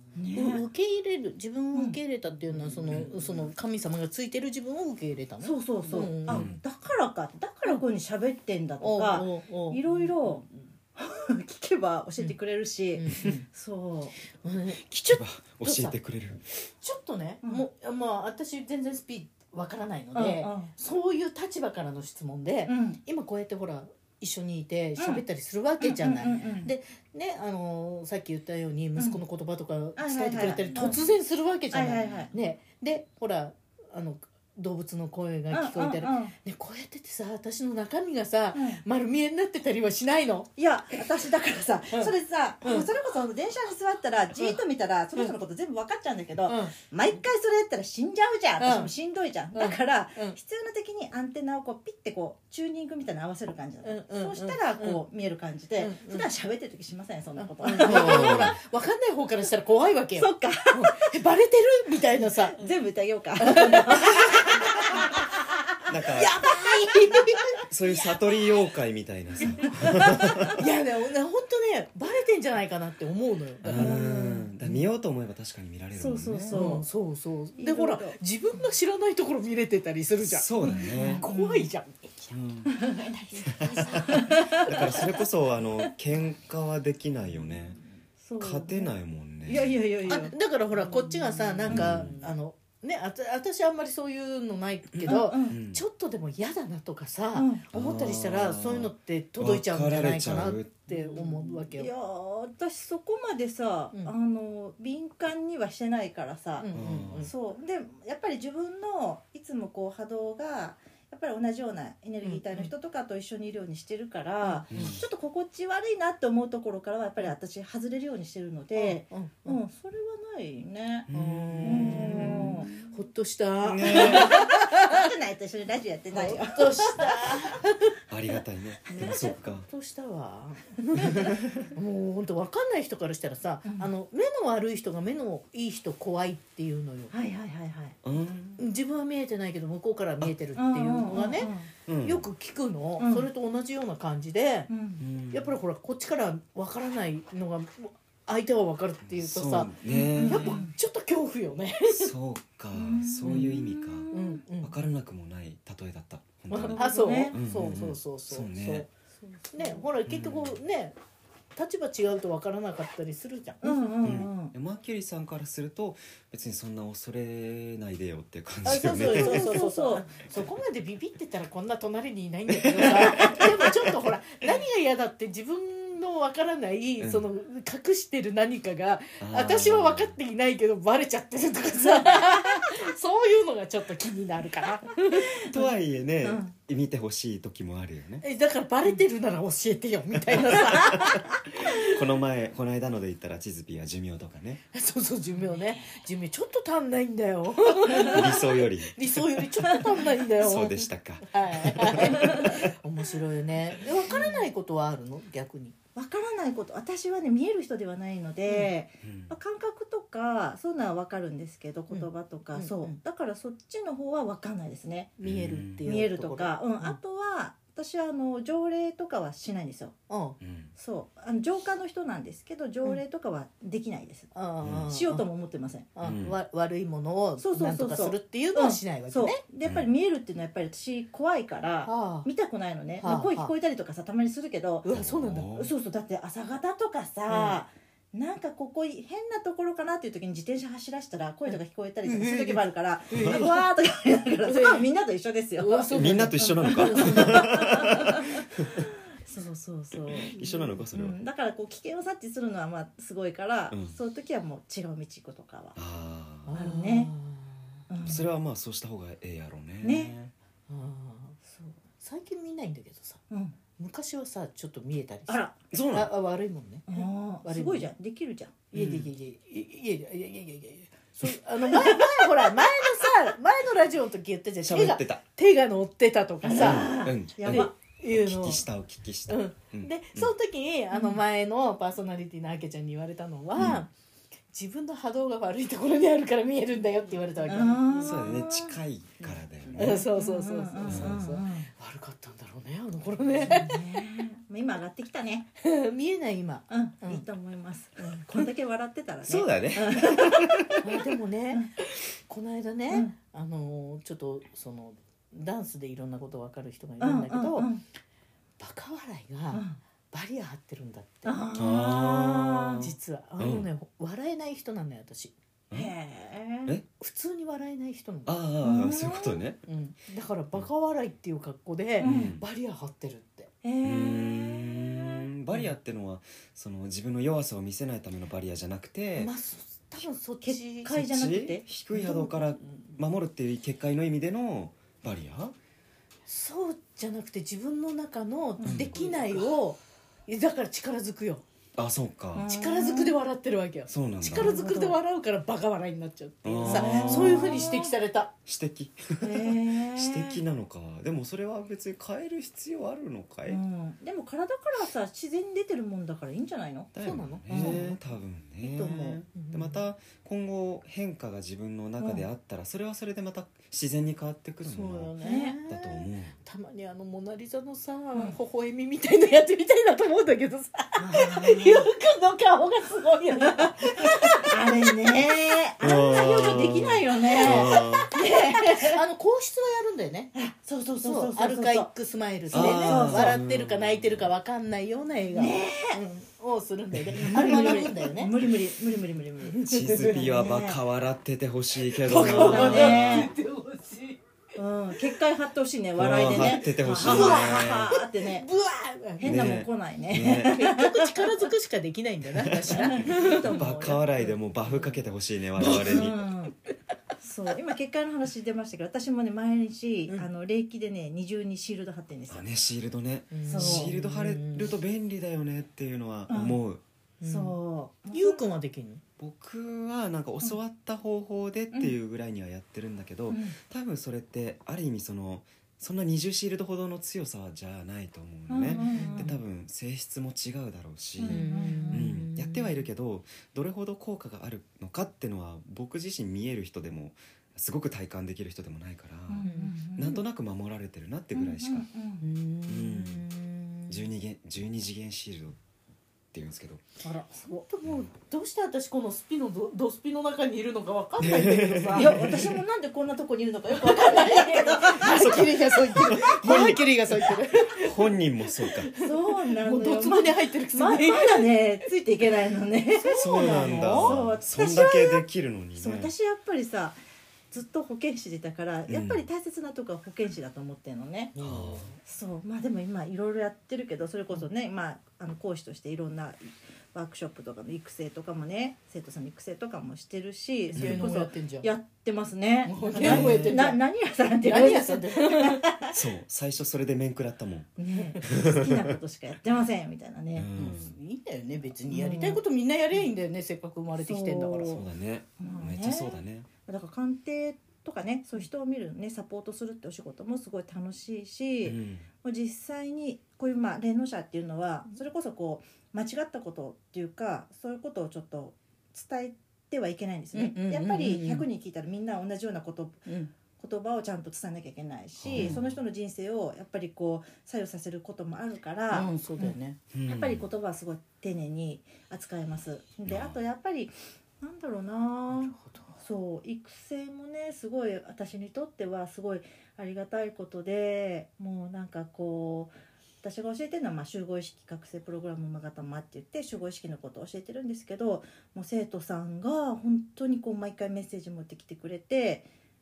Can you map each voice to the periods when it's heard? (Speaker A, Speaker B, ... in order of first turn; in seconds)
Speaker A: 0.1-0.7, 1.7-2.0, 5.4-14.2, 20.1-20.7, 22.7-23.0, 25.0-25.2, 25.8-26.7, 29.9-31.1, 31.7-32.3, 35.5-36.3, 38.5-38.8, 40.6-58.5, 60.2-61.1, 62.6-65.6, 66.7-67.4, 69.5-70.5, 73.8-74.8, 76.0-76.9, 77.6-78.7, 80.6-81.7, 82.7-83.1, 84.0-85.0, 88.2-88.9, 89.5-90.3, 90.9-92.2, 95.0-95.5, 97.3-97.6, 101.7-121.1, 121.6-122.7, 123.8-127.6, 128.9-129.3, 131.1-131.7, 133.6-133.9, 137.1-138.0, 140.6-141.7, 143.0-143.3, 144.7-145.0, 149.9-150.7, 152.7-154.4, 156.5-157.4, 159.2-159.8, 163.6-164.5, 168.7-170.1, 182.1-182.7, 185.2-185.7, 186.2-186.5, 197.9-198.2, 199.7-200.0, 202.0-202.7, 204.0-204.5, 205.9-215.1, 215.8-220.0, 220.7-224.3, 224.8-225.9, 227.4-255.8, 256.5-257.1, 257.9-258.3, 259.8-260.1, 261.4-261.8, 263.3-263.6, 265.3-265.5, 266.9-268.6, 271.6-272.5, 276.4-277.7, 280.9-281.2, 287.5-288.8, 289.8-291.7, 293.4-295.5, 296.7-300.8, 307.0-307.8, 309.5-309.8, 311.2-312.8, 315.7-316.7, 318.6-319.4, 322.0-322.4, 323.6-325.2, 330.4-332.3, 338.6-338.9, 342.3-343.1, 344.3-345.0, 346.6-347.9, 349.2-350.4, 353.4-356.9, 357.5-357.9, 362.0-362.2, 365.2-365.6, 371.0-371.9, 373.4-379.0, 380.3-381.9, 382.5-383.4, 385.3-386.0, 387.2-390.8, 392.1-393.3, 394.6-398.5, 399.2-401.3, 402.7-404.2, 405.6-406.5, 407.2-412.5, 413.5-413.9, 416.3-416.6, 417.2-418.4, 423.3-423.6, 428.5-429.3, 431.2-432.1, 439.3-440.2, 441.3-442.2, 447.1-447.6, 451.9-456.9, 459.0-467.0, 467.5-471.3, 472.0-485.9, 487.8-490.5, 491.9-492.4, 494.0-494.8, 495.4-513.0, 513.6-519.5, 520.0-542.5
Speaker B: 0.3-6.5, 8.8-10.1, 12.9-13.4, 14.4-15.9, 16.8-41.0, 41.9-42.9, 44.4-44.6, 46.5-46.7, 48.6-48.9, 49.5-50.4, 53.8-55.0, 55.8-56.3, 57.4-62.7, 63.4-65.1, 65.9-68.4, 69.6-74.3, 76.5-85.1, 90.1-101.9, 106.6-107.3, 112.2-112.7, 114.4-115.0, 118.8-119.6, 121.1-125.1, 126.1-127.7, 128.9-137.1, 138.6-141.5, 142.0-144.7, 145.3-152.1, 153.3-153.5, 154.1-154.8, 156.5-158.9, 159.5-160.9, 161.6-164.2, 168.6-185.4, 188.2-191.7, 194.7-205.8, 211.9-213.0, 215.2-217.0, 220.1-220.4, 224.3-225.2, 225.9-229.4, 231.8-232.3, 233.0-233.5, 234.8-235.5, 237.3-237.6, 242.0-243.6, 244.4-244.8, 245.6-247.8, 256.4-257.7, 260.7-261.4, 262.0-263.2, 263.8-267.9, 268.7-278.6, 279.3-283.9, 284.5-288.4, 289.8-294.0, 295.6-297.2, 298.0-298.3, 300.8-307.7, 308.6-311.4, 312.8-315.3, 317.0-318.4, 319.7-323.5, 329.2-331.0, 336.3-341.4, 342.4-348.3, 357.0-358.0, 358.6-359.8, 364.6-374.9, 377.3-380.3, 381.0-388.5, 389.5-390.2, 391.9-394.2, 396.2-399.6, 400.4-403.5, 404.7-405.0, 405.6-406.1, 413.3-414.7, 417.2-417.6, 418.1-419.0, 428.7-429.3, 431.2-432.8, 439.4-439.8, 442.2-444.0, 447.1-452.3, 453.7-461.6, 462.9-464.2, 471.3-472.0, 480.7-481.7, 482.6-485.7, 490.6-494.8, 510.3-511.4, 518.9-519.8, 525.3-525.9
Speaker C: 6.3-6.6, 14.8-16.4, 57.8-58.6, 65.9-66.5, 67.6-70.6, 73.6-76.6, 80.2-81.2, 82.3-82.7, 83.5-87.8, 88.4-89.7, 91.7-92.1, 94.9-95.8, 97.7-101.5, 106.7-107.3, 114.7-115.0, 121.1-122.6, 123.6-124.4, 128.1-129.7, 131.0-131.4, 138.0-138.6, 141.9-142.2, 145.0-145.5, 149.1-150.6, 151.9-154.1, 154.6-158.8, 160.1-160.6, 164.0-169.6, 172.5-174.0, 177.0-177.2, 179.2-180.1, 185.5-188.2, 190.3-194.6, 197.9-199.7, 200.4-202.7, 209.0-209.3, 215.2-215.8, 220.4-220.7, 224.6-224.9, 226.0-226.3, 234.9-235.7, 243.2-243.4, 245.9-248.8, 250.1-251.2, 253.7-253.9, 255.8-256.5, 258.0-260.3, 265.7-266.1, 268.7-269.1, 274.6-275.2, 276.6-280.3, 283.6-283.9, 287.9-290.0, 290.9-291.2, 299.2-300.8, 311.5-312.9, 313.4-313.7, 318.2-319.6, 322.0-322.4, 323.8-329.3, 330.9-335.5, 338.6-339.4, 341.8-342.4, 343.9-344.6, 346.4-347.7, 348.4-353.6, 356.9-365.1, 365.6-366.3, 375.8-378.1, 382.5-384.3, 386.9-387.9, 389.6-393.3, 395.9-397.9, 399.2-400.6, 402.4-406.2, 412.3-416.8, 419.2-441.8, 442.7-443.2, 443.9-445.6, 446.3-446.8, 451.2-452.6, 455.0-456.8, 457.7-458.9, 463.2-466.1, 468.9-469.2, 471.4-471.9, 480.7-481.1, 483.0-483.6, 485.9-488.9, 490.3-490.9, 494.6-496.5, 501.6-502.1, 515.2-515.8, 519.9-520.4, 523.0-523.4